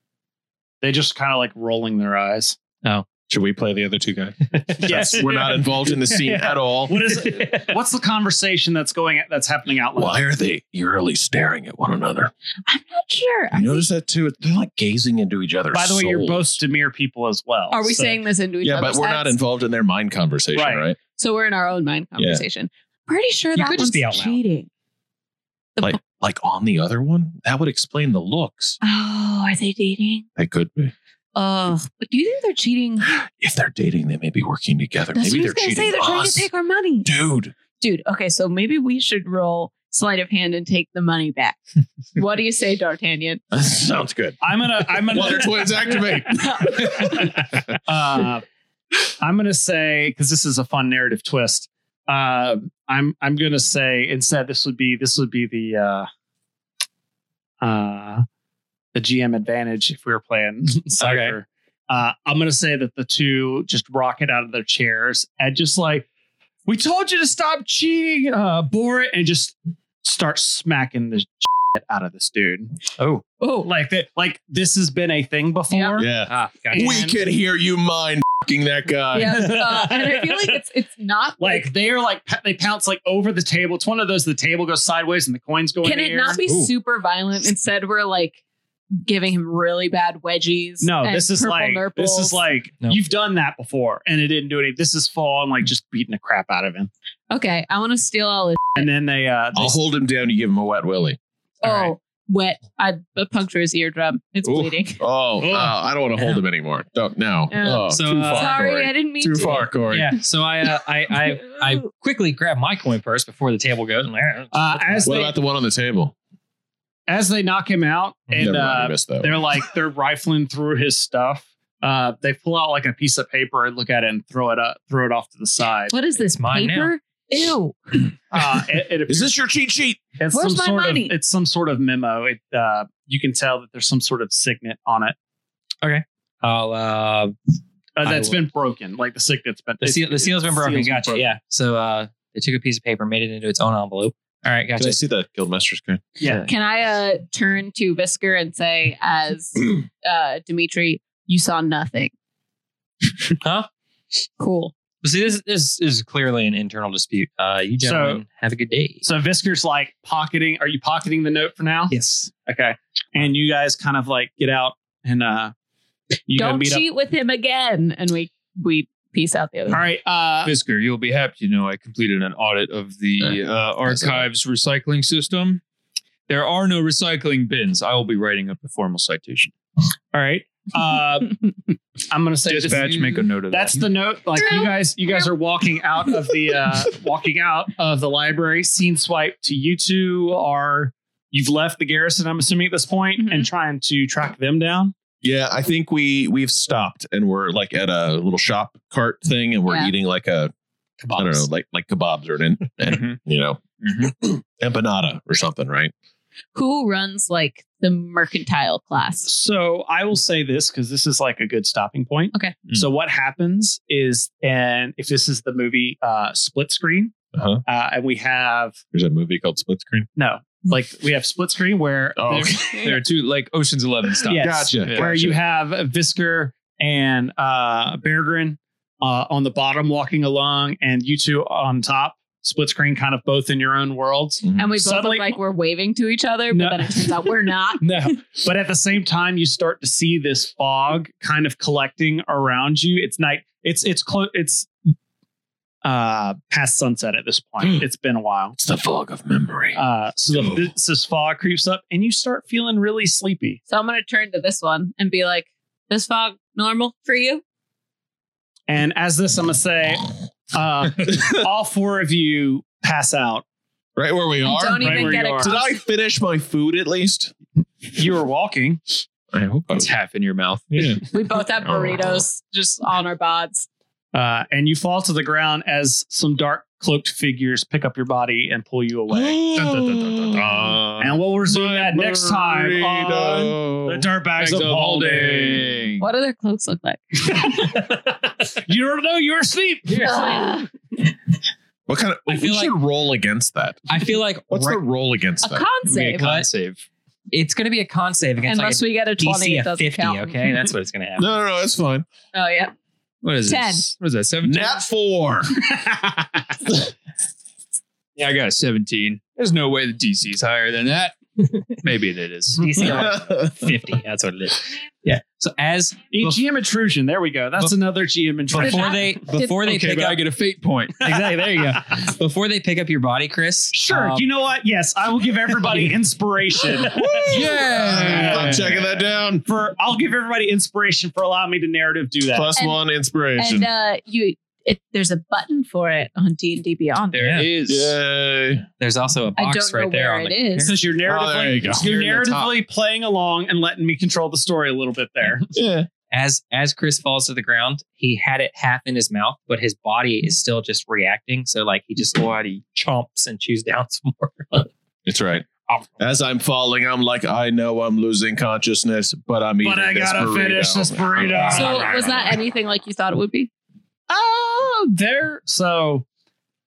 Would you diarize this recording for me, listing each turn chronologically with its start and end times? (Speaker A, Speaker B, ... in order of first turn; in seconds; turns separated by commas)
Speaker A: 0.8-2.6, Speaker B: 3.3-7.1, Speaker C: 4.5-5.0, Speaker A: 4.8-10.2, Speaker B: 10.0-12.3, Speaker D: 12.7-13.8, Speaker B: 13.5-16.5, Speaker A: 15.7-18.2, Speaker D: 17.7-19.4, Speaker B: 18.6-21.0, Speaker A: 20.5-20.9, Speaker D: 21.1-24.7, Speaker B: 22.2-22.4, Speaker A: 23.6-24.4, Speaker B: 25.8-28.8, Speaker D: 28.8-30.2, Speaker B: 30.4-30.9, Speaker D: 31.4-33.1, Speaker B: 33.0-36.5, Speaker D: 35.1-37.1, Speaker B: 37.0-37.5, Speaker D: 37.8-41.6, Speaker D: 42.1-43.4, Speaker B: 43.5-47.3, Speaker A: 44.4-46.0, Speaker D: 46.7-47.0, Speaker A: 47.0-48.5, Speaker A: 49.2-56.1, Speaker A: 57.6-58.2, Speaker A: 58.9-66.1, Speaker C: 61.0-61.4, Speaker A: 66.7-72.7, Speaker C: 73.0-73.2, Speaker D: 73.4-73.7, Speaker A: 73.6-76.1, Speaker D: 75.7-76.0, Speaker B: 76.0-79.6, Speaker C: 76.3-77.0, Speaker A: 76.7-77.2, Speaker D: 79.1-81.7, Speaker A: 79.3-80.6, Speaker A: 81.4-86.4, Speaker D: 85.8-88.4, Speaker C: 86.5-86.7, Speaker D: 89.0-92.4, Speaker A: 90.8-96.9, Speaker D: 97.3-98.9, Speaker A: 98.8-99.8, Speaker B: 99.5-101.2, Speaker D: 101.6-105.0, Speaker C: 101.6-101.9, Speaker B: 104.4-110.2, Speaker D: 107.5-109.7, Speaker C: 107.9-108.6, Speaker C: 109.9-115.2, Speaker A: 114.5-115.3, Speaker B: 115.0-116.1, Speaker A: 117.1-126.0, Speaker B: 118.4-119.5, Speaker D: 125.9-128.1, Speaker C: 126.2-126.9, Speaker A: 128.3-129.3, Speaker B: 129.1-130.0, Speaker A: 130.2-135.2, Speaker D: 130.3-131.2, Speaker C: 135.8-137.3, Speaker A: 138.0-141.3, Speaker C: 138.0-138.4, Speaker C: 139.8-145.0, Speaker B: 144.8-146.1, Speaker A: 146.2-146.5, Speaker C: 146.2-146.5, Speaker D: 146.5-152.1, Speaker C: 153.4-153.7, Speaker D: 154.4-154.7, Speaker C: 155.0-159.0, Speaker A: 157.8-158.2, Speaker A: 159.0-165.5, Speaker C: 161.9-162.3, Speaker A: 166.3-166.8, Speaker D: 166.3-169.8, Speaker A: 169.7-170.5, Speaker E: 170.4-175.6, Speaker B: 173.2-174.3, Speaker E: 176.3-179.5, Speaker A: 180.1-181.4, Speaker A: 182.1-194.9, Speaker E: 182.5-183.9, Speaker D: 184.4-185.3, Speaker D: 193.2-193.5, Speaker B: 195.2-200.5, Speaker C: 201.0-201.4, Speaker B: 201.2-205.9, Speaker E: 202.8-203.2, Speaker E: 203.8-204.1, Speaker D: 206.6-209.3, Speaker A: 209.2-217.1, Speaker B: 217.3-217.6, Speaker A: 217.7-218.8, Speaker B: 218.9-220.1, Speaker A: 220.2-222.6, Speaker B: 222.2-222.9, Speaker E: 222.8-225.2, Speaker A: 224.3-235.4, Speaker B: 224.4-225.4, Speaker B: 234.4-234.7, Speaker D: 234.6-237.9, Speaker A: 236.5-237.3, Speaker A: 237.8-244.7, Speaker A: 245.8-248.6, Speaker B: 248.6-249.8, Speaker A: 249.8-253.6, Speaker B: 250.3-250.7, Speaker D: 253.7-257.4, Speaker A: 258.7-263.4, Speaker B: 264.0-267.3, Speaker D: 264.4-265.8, Speaker A: 264.8-265.6, Speaker A: 267.9-269.0, Speaker B: 269.3-269.9, Speaker E: 269.7-271.0, Speaker B: 270.7-271.0, Speaker D: 271.1-273.7, Speaker B: 271.6-272.2, Speaker A: 274.1-279.4, Speaker B: 279.1-284.1, Speaker E: 279.6-281.1, Speaker A: 281.0-285.8, Speaker E: 284.4-286.1, Speaker D: 286.0-287.5, Speaker A: 287.3-290.6, Speaker D: 290.0-290.7, Speaker B: 291.9-293.9, Speaker C: 292.3-292.8, Speaker C: 293.9-294.8, Speaker B: 294.5-295.7, Speaker D: 295.4-296.3, Speaker E: 295.9-296.9, Speaker C: 296.2-296.5, Speaker C: 297.3-301.3, Speaker D: 298.5-300.4, Speaker B: 301.2-302.1, Speaker D: 302.3-302.7, Speaker E: 303.2-304.8, Speaker D: 303.4-303.9, Speaker B: 304.4-305.5, Speaker A: 305.8-306.3, Speaker E: 308.2-312.7, Speaker C: 312.6-316.3, Speaker B: 312.8-313.7, Speaker A: 316.1-319.1, Speaker C: 318.5-320.2, Speaker D: 318.6-319.6, Speaker E: 319.6-321.1, Speaker A: 321.0-321.8, Speaker C: 321.0-324.2, Speaker A: 323.7-327.3, Speaker B: 326.9-329.4, Speaker E: 327.3-329.0, Speaker C: 327.3-328.5, Speaker A: 327.8-328.6, Speaker A: 329.4-332.5, Speaker B: 332.3-333.7, Speaker D: 333.4-337.4, Speaker E: 337.1-338.0, Speaker C: 337.2-337.5, Speaker B: 337.7-338.6, Speaker C: 338.8-340.8, Speaker D: 339.4-340.8, Speaker A: 340.6-345.5, Speaker B: 341.1-342.4, Speaker E: 341.8-342.5, Speaker B: 345.5-345.9, Speaker C: 346.1-354.7, Speaker B: 355.1-355.5, Speaker B: 356.0-362.3, Speaker A: 359.6-362.4, Speaker D: 361.5-363.5, Speaker A: 364.1-366.1